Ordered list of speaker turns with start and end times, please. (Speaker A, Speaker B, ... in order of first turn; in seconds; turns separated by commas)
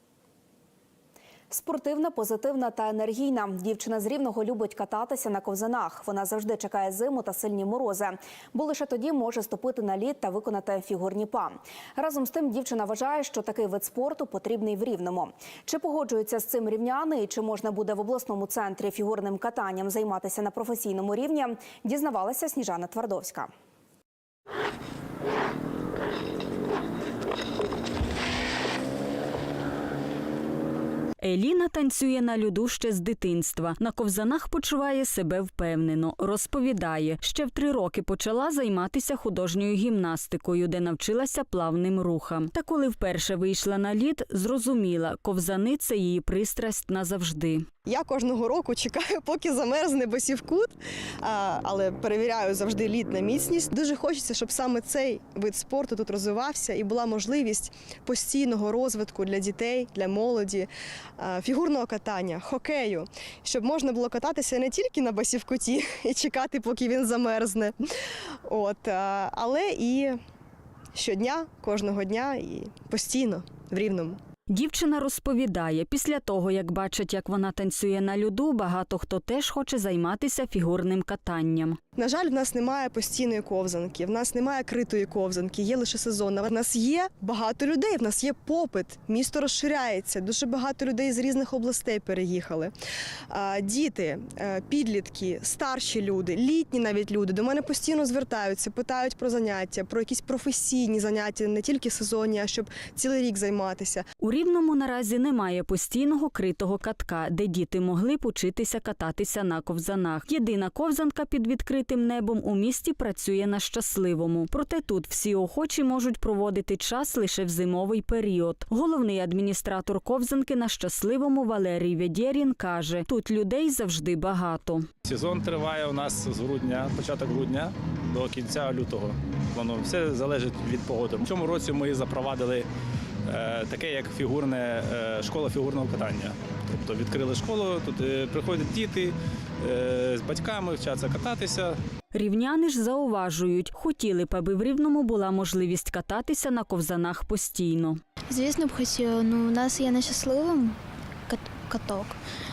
Speaker A: 1.5-23.5, Speaker B: 31.2-47.6, Speaker C: 47.9-67.8, Speaker C: 68.5-70.2, Speaker C: 71.0-74.2, Speaker B: 74.5-81.8, Speaker C: 82.0-92.7, Speaker C: 93.3-104.0, Speaker B: 104.2-124.8, Speaker D: 125.0-132.7, Speaker D: 133.3-141.8, Speaker B: 142.1-148.0, Speaker E: 148.3-152.2